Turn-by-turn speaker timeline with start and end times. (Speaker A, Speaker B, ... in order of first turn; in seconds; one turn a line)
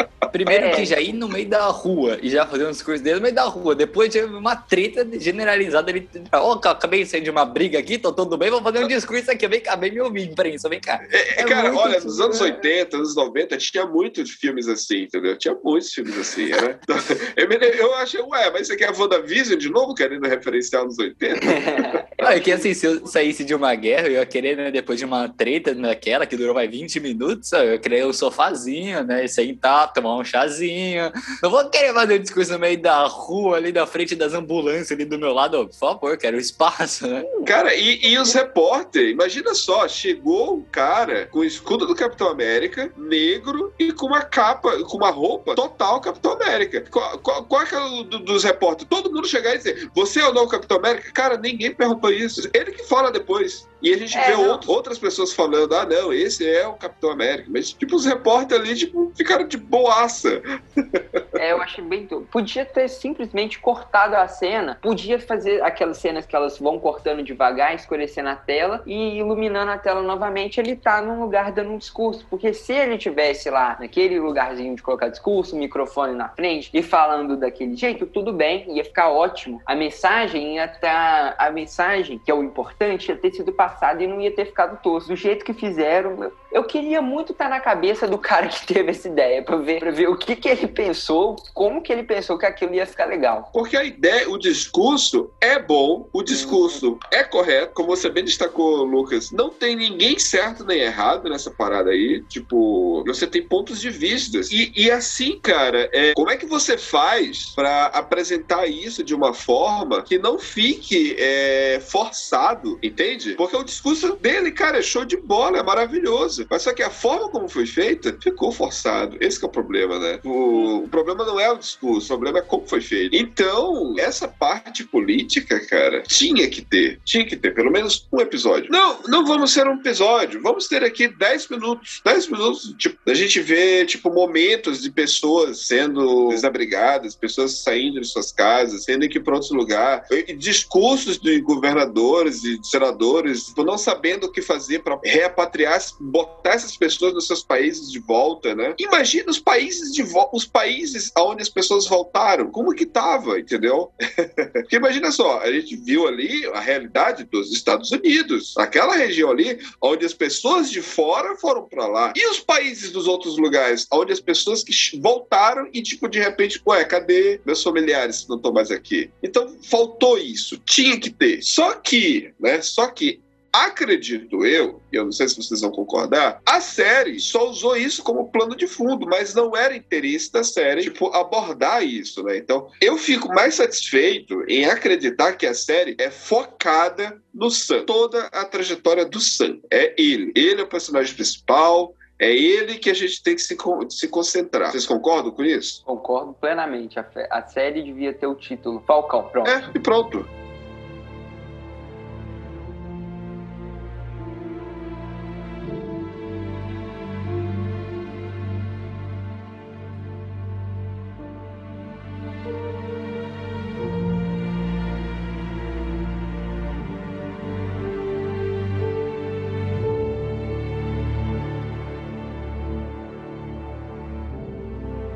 Speaker A: 0.3-12.3
Speaker B: 0.5-1.0
Speaker C: 11.1-22.5
Speaker B: 21.4-22.6
Speaker A: 22.2-37.3
Speaker C: 37.4-61.2
Speaker B: 54.1-54.7
Speaker B: 61.4-93.5
Speaker C: 93.5-195.8
Speaker B: 96.3-96.8
Speaker B: 195.9-199.6
Speaker C: 199.4-200.3